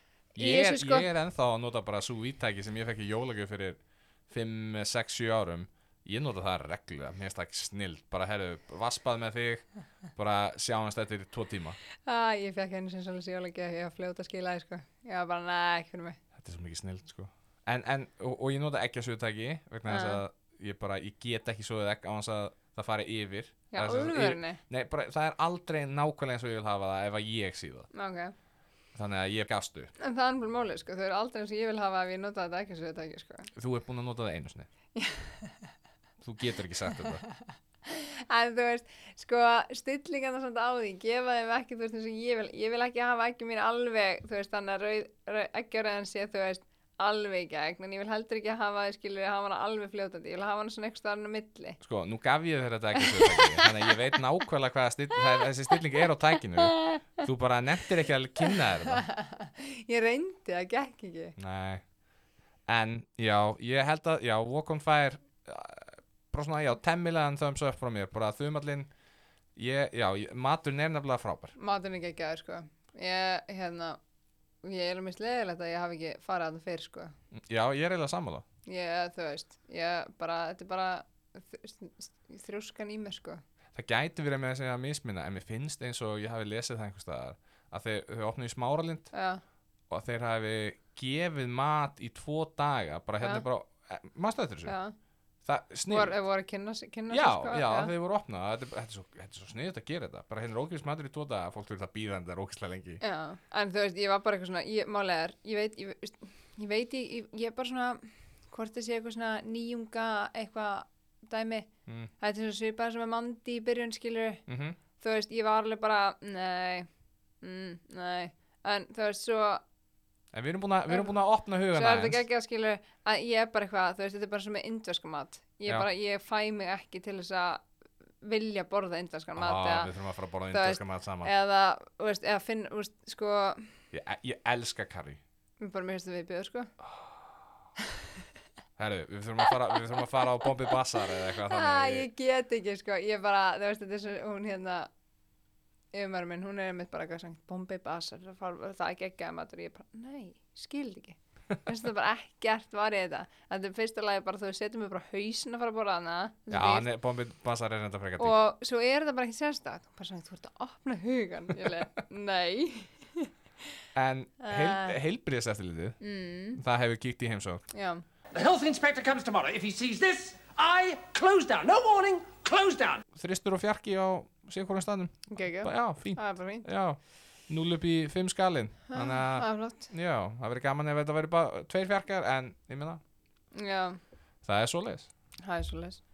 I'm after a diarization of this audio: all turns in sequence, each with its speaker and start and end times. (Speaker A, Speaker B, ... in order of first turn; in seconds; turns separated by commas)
Speaker A: 0.3-1.1, Speaker B: 0.3-11.8, Speaker A: 12.0-16.2, Speaker B: 16.4-27.9, Speaker A: 19.9-20.2, Speaker A: 23.7-24.6, Speaker A: 27.9-28.3, Speaker B: 28.9-29.9, Speaker A: 30.0-33.5, Speaker B: 33.5-34.7, Speaker A: 35.0-35.8, Speaker B: 36.2-37.2, Speaker A: 37.9-51.8, Speaker B: 51.8-59.1, Speaker A: 53.0-53.4, Speaker A: 59.1-61.4, Speaker B: 61.4-61.9, Speaker B: 62.7-68.9, Speaker B: 69.5-71.5, Speaker A: 71.5-74.0, Speaker A: 74.6-77.1, Speaker B: 77.3-78.4, Speaker A: 78.7-83.4, Speaker B: 83.7-89.1, Speaker A: 89.1-89.4, Speaker B: 89.9-94.8, Speaker A: 93.2-93.5, Speaker A: 94.6-94.9, Speaker B: 95.4-96.2, Speaker A: 95.9-97.9, Speaker B: 97.1-103.0, Speaker A: 103.0-114.4, Speaker B: 111.8-112.1, Speaker B: 114.5-114.8, Speaker A: 115.0-116.9, Speaker A: 117.4-119.6, Speaker B: 120.3-122.2, Speaker A: 120.9-127.6, Speaker A: 128.2-129.9, Speaker B: 129.3-131.3, Speaker A: 130.5-133.8, Speaker B: 133.9-135.2, Speaker A: 135.6-136.7, Speaker B: 136.9-137.3, Speaker B: 138.8-142.1, Speaker A: 141.4-144.9, Speaker A: 145.9-156.9, Speaker B: 156.5-158.3, Speaker A: 158.2-163.3, Speaker B: 163.9-166.0, Speaker A: 164.4-165.0, Speaker A: 166.0-166.6, Speaker B: 166.5-167.7, Speaker A: 167.7-168.0, Speaker C: 168.3-173.0, Speaker B: 173.1-183.0, Speaker A: 175.3-176.7, Speaker A: 178.9-179.9, Speaker A: 183.5-184.0, Speaker B: 184.4-185.1, Speaker A: 185.4-186.0